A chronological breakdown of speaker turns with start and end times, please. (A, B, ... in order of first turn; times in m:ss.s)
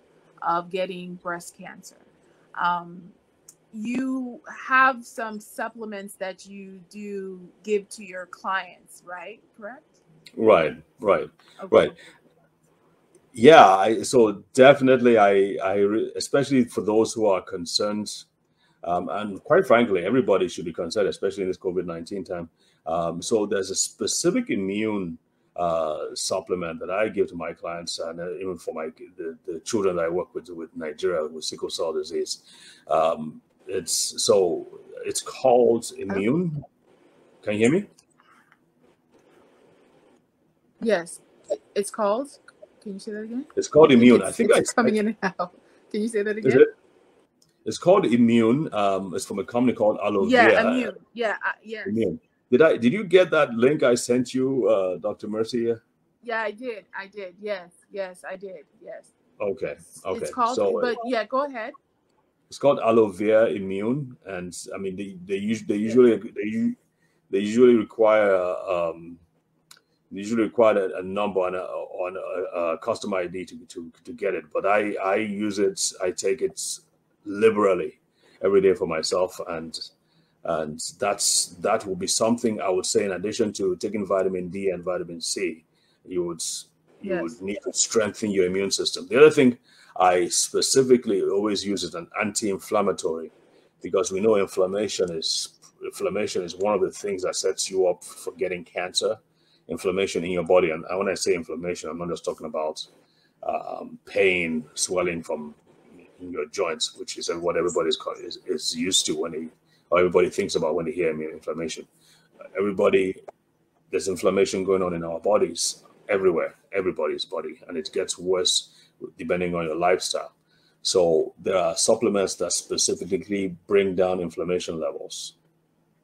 0:00.4-0:03.2 A
0:03.7-0:09.9 A
0:10.4-0:12.0 B
0:11.6-0:12.0 A
0:13.3-0:18.3 B
0:18.8-0:36.6 B
0:37.4-0:37.9 B
0:40.8-0:46.6 A
0:43.6-0:45.0 B
0:46.4-0:46.7 B
0:47.6-0:50.9 B
0:50.2-0:52.0 A
0:51.8-0:55.8 B
0:56.2-0:59.1 A
0:59.4-1:01.0 B
1:00.1-1:01.8 A
1:02.5-1:06.8 B
1:07.3-1:09.2 B
1:10.1-1:19.8 B
1:20.4-1:42.9 B
1:27.0-1:27.4 A
1:43.4-1:45.6 B
1:46.2-1:51.9 B
1:52.5-1:53.2 B
1:53.9-2:05.4 B